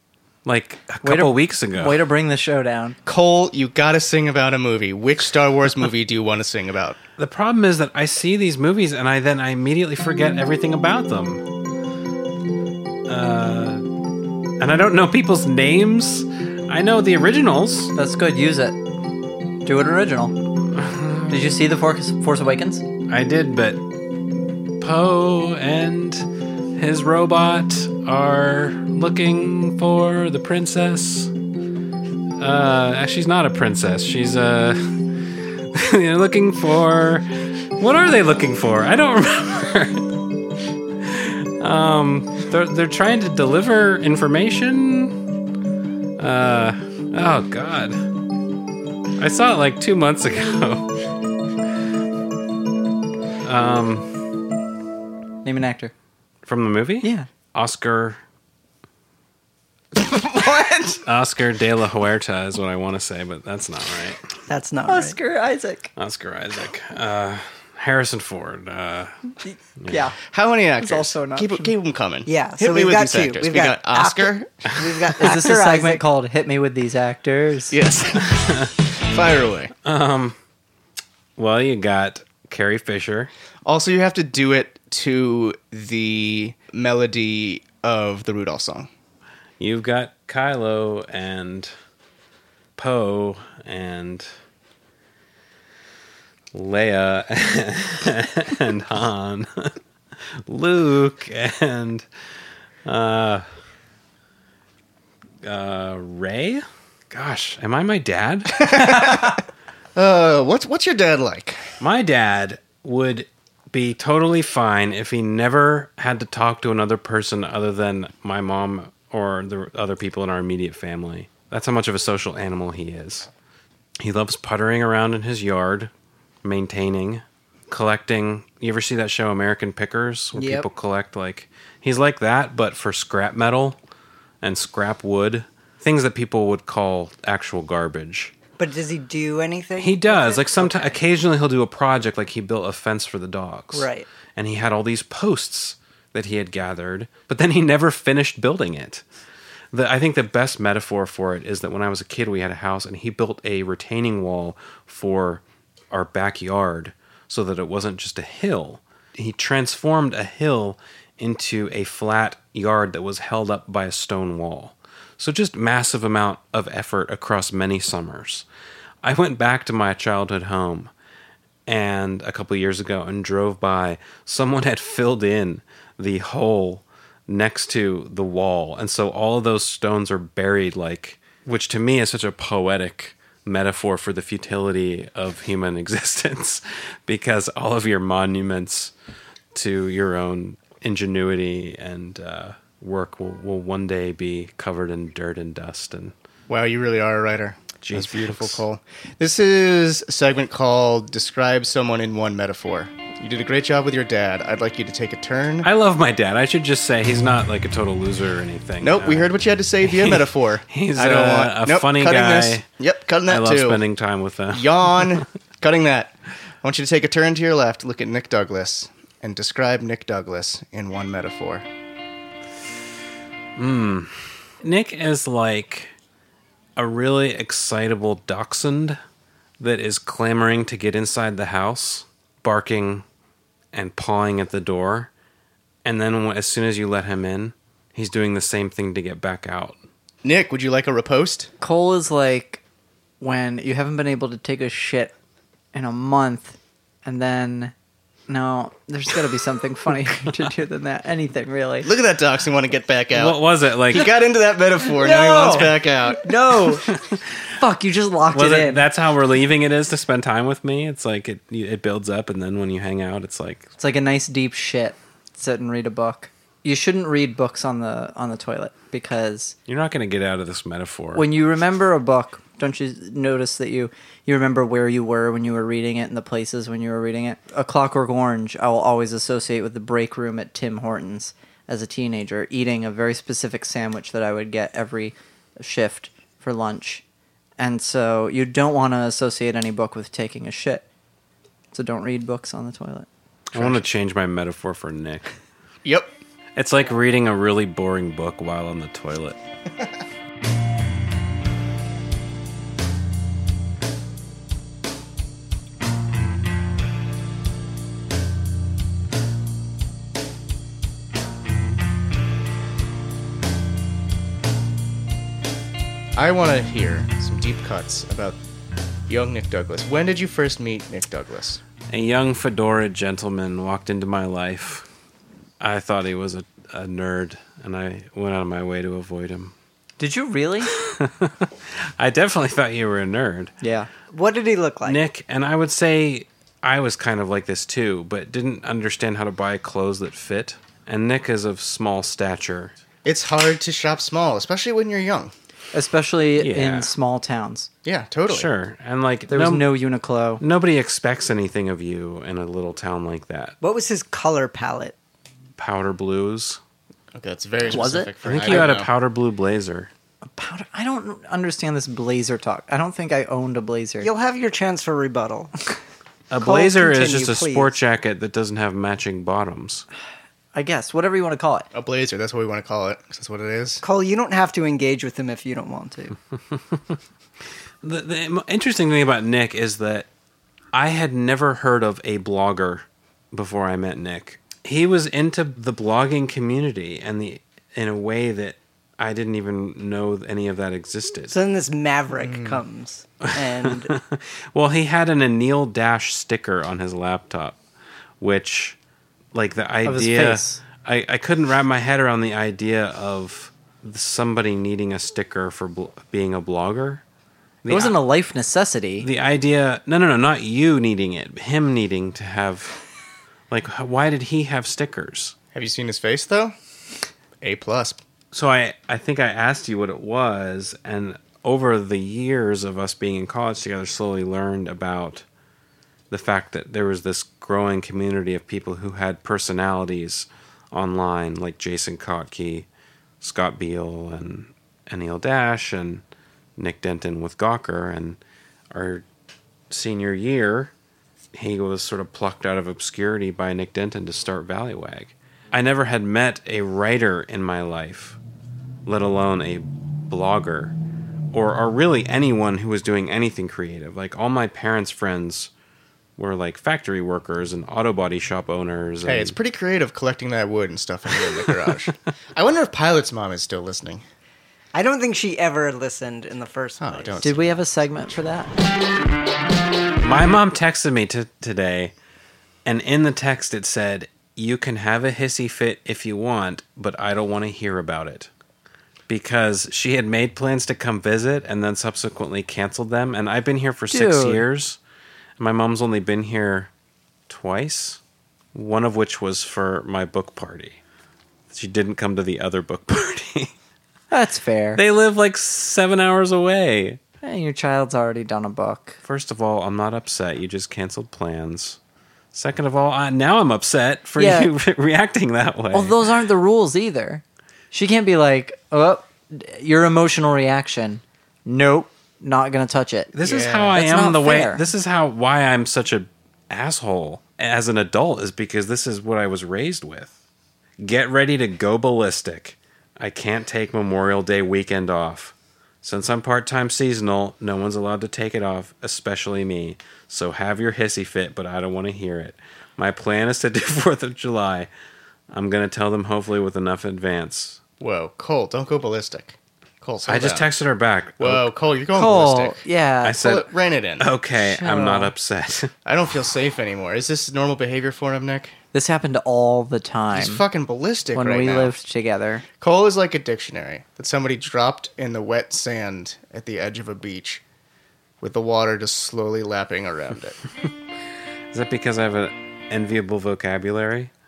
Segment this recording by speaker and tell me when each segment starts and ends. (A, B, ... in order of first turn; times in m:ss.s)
0:00.4-0:02.0 A
0:01.0-0:03.0 B
0:03.0-0:07.0 C
0:07.2-0:11.4 A
0:13.1-0:13.8 A
0:14.6-0:17.9 A
0:18.0-0:18.8 B
0:19.6-0:20.4 B
0:20.8-0:21.6 A
0:21.3-0:22.8 B
0:23.1-0:23.8 A
0:24.8-0:31.3 A
0:32.4-0:40.1 A
0:41.0-0:45.2 A
0:46.2-0:48.1 A
0:49.2-0:50.9 A
0:53.4-0:54.1 A
0:55.4-0:55.9 B
0:56.5-0:58.2 A
0:57.0-0:57.3 B
0:59.9-1:01.0 C
1:01.0-1:04.3 A
1:04.5-1:05.2 D
1:04.9-1:05.9 B
1:06.0-1:09.2 A
1:09.5-1:10.1 B
1:10.2-1:14.7 C
1:10.8-1:11.7 B
1:12.3-1:16.0 D
1:15.2-1:17.8 B
1:17.7-1:19.7 C
1:18.3-1:18.7 A
1:19.8-1:20.4 A
1:21.4-1:23.3 A
1:23.6-1:28.9 C
1:29.6-1:31.7 A
1:32.8-1:34.3 A
1:36.5-1:39.8 A
1:40.5-1:42.0 A
1:42.8-1:43.5 A
1:45.4-1:49.4 A
1:48.6-1:49.4 C
1:50.0-1:51.7 C
1:51.8-2:03.3 A
2:04.0-2:05.9 A
2:06.4-2:13.8 A
2:10.4-2:10.6 D
2:14.4-2:18.3 A
2:18.6-2:21.0 D
2:19.8-2:29.0 A
2:23.7-2:24.1 D
2:29.7-2:48.5 A
2:49.0-2:50.9 A
2:51.7-3:08.9 A
3:09.5-3:16.1 A
3:16.5-3:25.7 C
3:17.8-3:18.6 A
3:25.6-3:29.3 A
3:28.8-3:33.8 C
3:29.8-3:32.6 A
3:33.3-3:35.2 A
3:34.5-3:41.6 C
3:43.6-3:45.9 A
3:46.8-3:49.0 A
3:49.6-3:53.0 A
3:53.7-3:55.1 A
3:55.8-3:59.8 A
4:00.2-4:01.5 C
4:01.6-4:02.6 B
4:03.2-4:05.1 B
4:05.7-4:07.7 B
4:08.3-4:11.9 B
4:11.8-4:16.3 C
4:13.1-4:14.1 A
4:14.9-4:16.9 B
4:16.9-4:17.5 A
4:17.6-4:18.8 B
4:18.3-4:23.7 A
4:23.8-4:29.6 B
4:29.7-4:31.3 A
4:31.2-4:47.0 B
4:47.6-4:50.9 B
4:51.7-4:53.1 B
4:53.5-4:53.8 C
4:53.5-4:55.3 A
4:55.8-4:56.2 C
4:56.6-4:59.4 A
5:16.2-5:18.4 C
5:19.1-5:21.6 C
5:21.9-5:24.9 A
5:25.6-5:29.5 A
5:30.0-5:30.7 B
5:30.7-5:33.5 A
5:33.6-5:33.9 B
5:34.1-5:35.0 D
5:34.8-5:42.7 A
5:43.0-5:45.3 C
5:45.7-5:47.7 B
5:46.4-5:46.9 A
5:47.8-5:48.5 C
5:48.3-5:49.7 A
5:49.3-5:50.4 B
5:50.4-5:53.6 A
5:53.6-5:55.0 D
5:55.6-5:56.6 A
5:57.1-5:58.9 C
5:57.7-5:58.1 B
5:58.2-5:59.9 A
6:00.3-6:04.1 B
6:04.0-6:05.5 D
6:06.3-6:09.9 A
6:06.4-6:07.8 D
6:10.6-6:11.7 B
6:11.7-6:13.8 C
6:13.8-6:16.2 D
6:17.8-6:20.1 A
6:20.7-6:31.4 A
6:31.3-6:33.9 D
6:32.2-6:32.6 C
6:33.2-6:37.6 A
6:38.2-6:38.8 A
6:39.3-6:47.0 A
6:39.8-6:40.6 B
6:47.6-6:48.0 A
6:47.7-6:49.1 B
6:49.0-6:52.8 A
6:53.5-6:55.4 A
6:55.5-6:56.6 C
6:57.4-6:58.0 C
6:58.3-7:05.2 A
7:06.1-7:12.7 A
7:13.2-7:16.0 A
7:16.6-7:18.2 A
7:18.7-7:19.0 A
7:19.7-7:20.7 A
7:21.3-7:28.2 A
7:28.9-7:30.8 A
7:31.3-7:35.5 A
7:36.2-7:39.4 A
7:39.0-7:44.0 C
7:44.7-7:47.4 D
7:46.8-7:47.6 C
7:47.2-7:48.5 B
7:50.0-7:51.9 A
7:52.6-7:58.3 A
7:59.1-8:04.8 A
8:03.9-8:04.4 B
8:05.4-8:06.7 A
8:07.3-8:08.0 A
8:08.5-8:10.8 A
8:11.5-8:13.5 A
8:14.1-8:14.8 B
8:14.8-8:17.0 A
8:17.2-8:19.0 B
8:19.0-8:21.8 A
8:22.3-8:26.0 A
8:24.2-8:24.5 B
8:25.7-8:33.1 B
8:33.1-8:40.1 A
8:33.2-8:33.8 C
8:33.7-8:34.6 B
8:40.8-8:54.7 A
8:55.3-8:57.6 A
8:57.8-9:00.5 C
9:00.1-9:01.5 A
9:01.2-9:02.6 C
9:01.9-9:03.3 B
9:03.0-9:05.7 A
9:03.2-9:04.1 C
9:04.4-9:05.1 B
9:05.8-9:08.6 C
9:08.7-9:10.4 B
9:10.1-9:11.8 C
9:11.2-9:12.4 B
9:12.6-9:17.4 C
9:18.2-9:20.4 C
9:21.5-9:24.1 A